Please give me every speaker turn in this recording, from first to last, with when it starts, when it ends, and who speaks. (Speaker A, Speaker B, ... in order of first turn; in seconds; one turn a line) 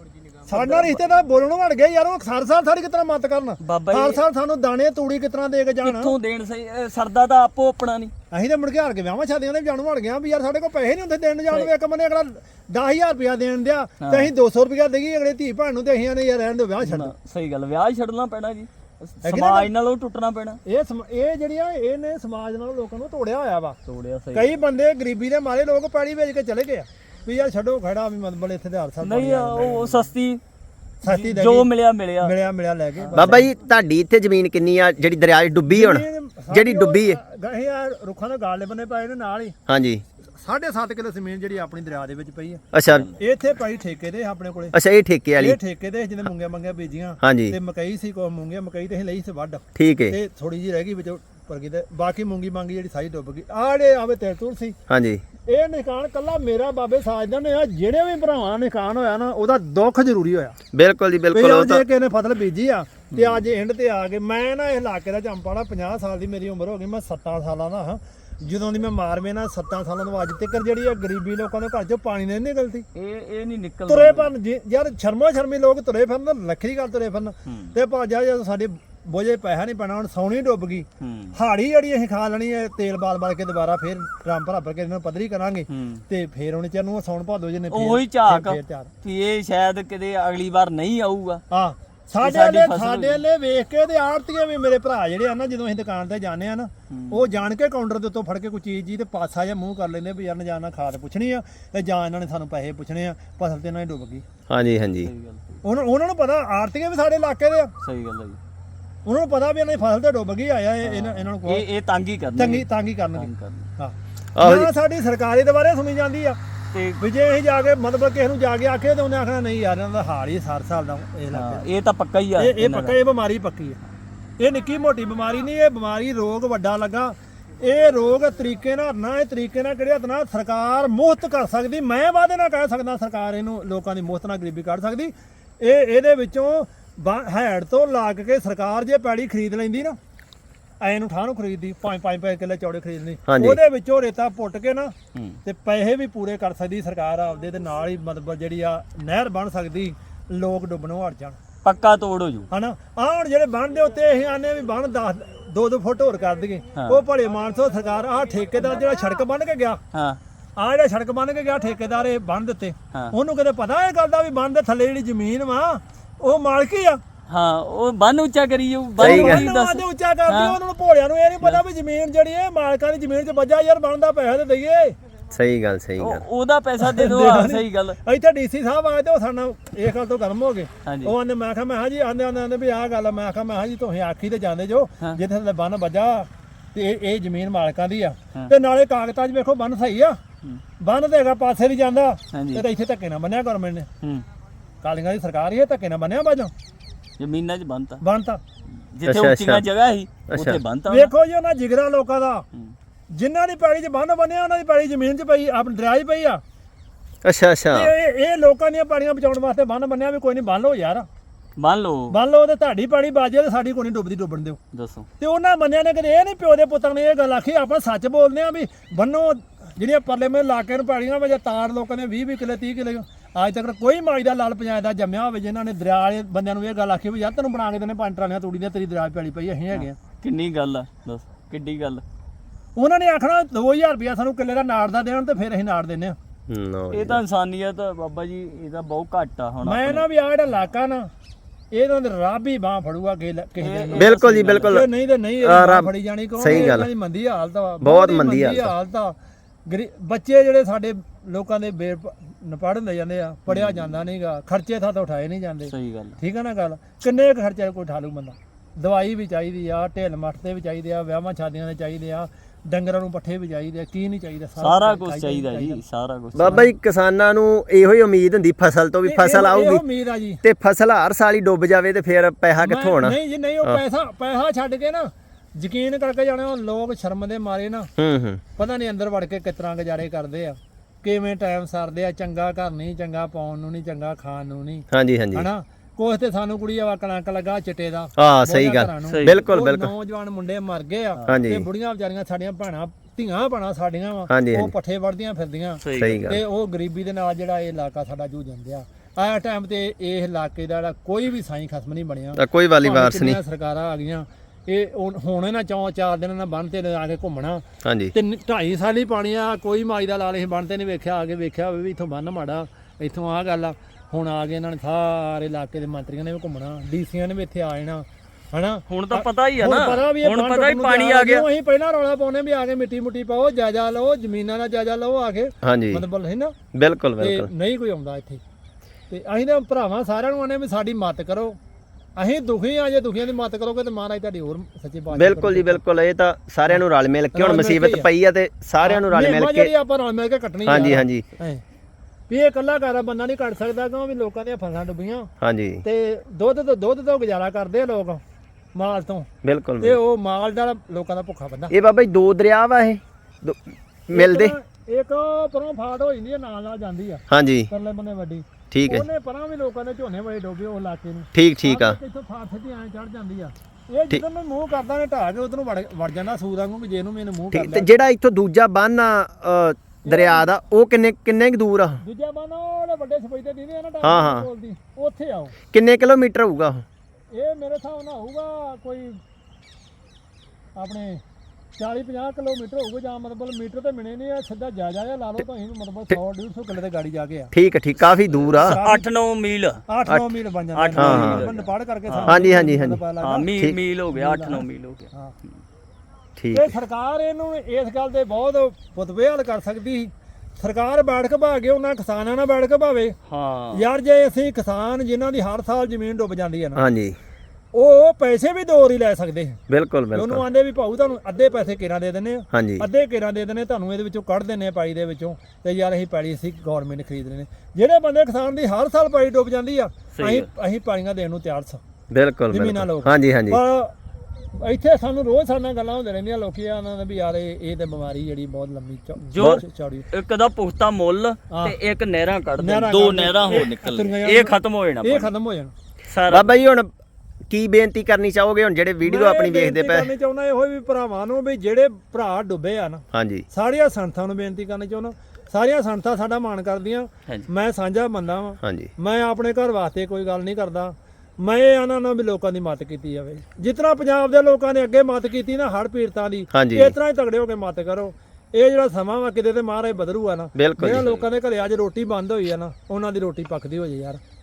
Speaker A: 0.5-6.1
Speaker B: 0.5-1.0
Speaker B: 3.6-4.2
Speaker B: 5.8-8.1
Speaker A: 8.3-17.1
Speaker B: 14.0-14.3
Speaker B: 16.8-20.6
Speaker A: 19.2-19.7
Speaker A: 20.6-23.8
Speaker B: 23.9-24.5
Speaker A: 24.3-30.1
Speaker B: 29.0-30.4
Speaker A: 31.0-31.7
Speaker B: 31.0-32.3
Speaker A: 32.2-33.5
Speaker B: 33.0-33.4
Speaker C: 33.1-37.2
Speaker A: 35.7-39.6
Speaker C: 39.7-40.0
Speaker A: 40.4-42.6
Speaker C: 42.7-43.1
Speaker A: 43.1-44.7
Speaker C: 44.7-45.6
Speaker A: 45.4-54.8
Speaker C: 47.2-47.5
Speaker C: 49.8-50.2
Speaker C: 54.9-55.2
Speaker A: 55.5-60.6
Speaker C: 60.7-61.8
Speaker A: 61.3-72.8
Speaker B: 63.1-63.4
Speaker B: 73.0-74.3
Speaker A: 73.9-88.9
Speaker B: 77.5-77.8
Speaker B: 81.0-81.3
Speaker B: 85.7-86.0
Speaker B: 87.7-91.4
Speaker A: 91.5-104.2
Speaker B: 92.2-93.2
Speaker B: 96.9-97.3
Speaker C: 104.5-105.1
Speaker B: 105.0-105.6
Speaker A: 105.6-107.7
Speaker B: 107.8-108.4
Speaker A: 109.0-111.6
Speaker B: 110.8-113.7
Speaker A: 112.3-116.4
Speaker C: 114.3-114.7
Speaker B: 116.7-117.0
Speaker A: 117.0-121.6
Speaker B: 121.3-123.0
Speaker A: 122.4-123.8
Speaker A: 124.4-140.0
Speaker A: 140.8-144.9
Speaker C: 143.3-143.6
Speaker A: 145.4-151.4
Speaker B: 151.6-152.5
Speaker A: 152.5-159.8
Speaker B: 156.8-157.0
Speaker B: 159.9-160.2
Speaker A: 160.6-167.0
Speaker B: 167.3-170.6
Speaker C: 169.0-169.4
Speaker A: 169.0-174.9
Speaker C: 175.3-176.2
Speaker B: 176.0-178.0
Speaker A: 176.8-190.2
Speaker B: 180.8-181.1
Speaker A: 190.8-193.9
Speaker B: 192.3-192.6
Speaker A: 194.8-196.5
Speaker B: 197.2-198.0
Speaker A: 198.0-198.4
Speaker B: 198.8-201.1
Speaker C: 199.0-199.6
Speaker C: 200.3-200.6
Speaker A: 200.9-202.4
Speaker A: 203.1-206.4
Speaker C: 207.2-207.9
Speaker A: 207.7-211.1
Speaker B: 211.6-212.1
Speaker A: 212.1-214.6
Speaker B: 214.7-215.1
Speaker A: 215.2-230.0
Speaker B: 229.7-232.0
Speaker A: 232.8-236.2
Speaker C: 236.5-237.2
Speaker B: 236.9-240.0
Speaker A: 239.6-241.1
Speaker A: 241.7-244.1
Speaker B: 243.6-244.8
Speaker C: 243.9-244.9
Speaker A: 244.7-265.8
Speaker C: 245.4-245.9
Speaker C: 246.4-246.9
Speaker B: 246.4-246.8
Speaker C: 247.8-248.7
Speaker B: 253.5-254.0
Speaker B: 255.7-256.2
Speaker B: 264.6-266.7
Speaker C: 266.3-269.8
Speaker A: 269.0-270.4
Speaker C: 270.4-273.8
Speaker A: 272.6-277.9
Speaker C: 278.0-278.4
Speaker A: 278.6-326.5
Speaker C: 284.9-285.5
Speaker C: 288.2-289.9
Speaker B: 289.1-289.4
Speaker C: 291.2-291.6
Speaker C: 294.3-294.7
Speaker B: 295.8-296.2
Speaker C: 295.9-296.4
Speaker C: 302.4-303.4
Speaker C: 307.8-308.1
Speaker B: 318.9-321.4
Speaker C: 325.6-326.0
Speaker C: 326.7-327.5
Speaker A: 327.2-328.4
Speaker A: 329.1-331.6
Speaker A: 332.2-335.8
Speaker C: 335.1-339.7
Speaker A: 337.3-338.1
Speaker A: 338.8-341.6
Speaker C: 340.6-341.2
Speaker A: 342.3-345.3
Speaker C: 345.4-345.8
Speaker A: 345.8-348.2
Speaker A: 348.7-349.3
Speaker C: 349.4-350.0
Speaker A: 349.8-351.7
Speaker C: 351.7-354.5
Speaker A: 354.1-367.9
Speaker C: 357.3-357.7
Speaker C: 358.7-359.1
Speaker C: 361.3-362.0
Speaker C: 367.5-372.0
Speaker A: 370.0-370.5
Speaker A: 372.0-375.5
Speaker C: 374.0-374.5
Speaker C: 375.7-376.8
Speaker A: 377.3-379.2
Speaker A: 380.8-381.2
Speaker A: 381.8-387.5
Speaker C: 387.5-388.8
Speaker B: 388.5-389.8
Speaker A: 388.6-389.1
Speaker A: 389.9-393.5
Speaker C: 390.1-390.3
Speaker B: 390.7-392.5
Speaker C: 390.9-391.5
Speaker C: 392.3-393.0
Speaker B: 393.2-395.1
Speaker A: 394.1-395.3
Speaker C: 396.4-396.7
Speaker A: 396.5-403.1
Speaker B: 403.3-403.8
Speaker A: 403.7-406.8
Speaker C: 406.8-407.1
Speaker A: 407.7-409.6
Speaker C: 409.7-410.4
Speaker A: 410.1-421.8
Speaker C: 412.5-412.9
Speaker B: 420.1-420.5
Speaker C: 422.1-423.6
Speaker A: 422.5-423.9
Speaker A: 424.5-430.1
Speaker B: 429.2-435.3
Speaker C: 429.4-429.6
Speaker A: 431.5-431.7
Speaker A: 432.6-435.7
Speaker B: 436.1-436.5
Speaker C: 436.3-436.9
Speaker C: 437.5-440.1
Speaker A: 439.0-464.2
Speaker C: 443.1-443.4
Speaker C: 448.6-448.9
Speaker C: 456.5-456.9
Speaker C: 460.6-461.1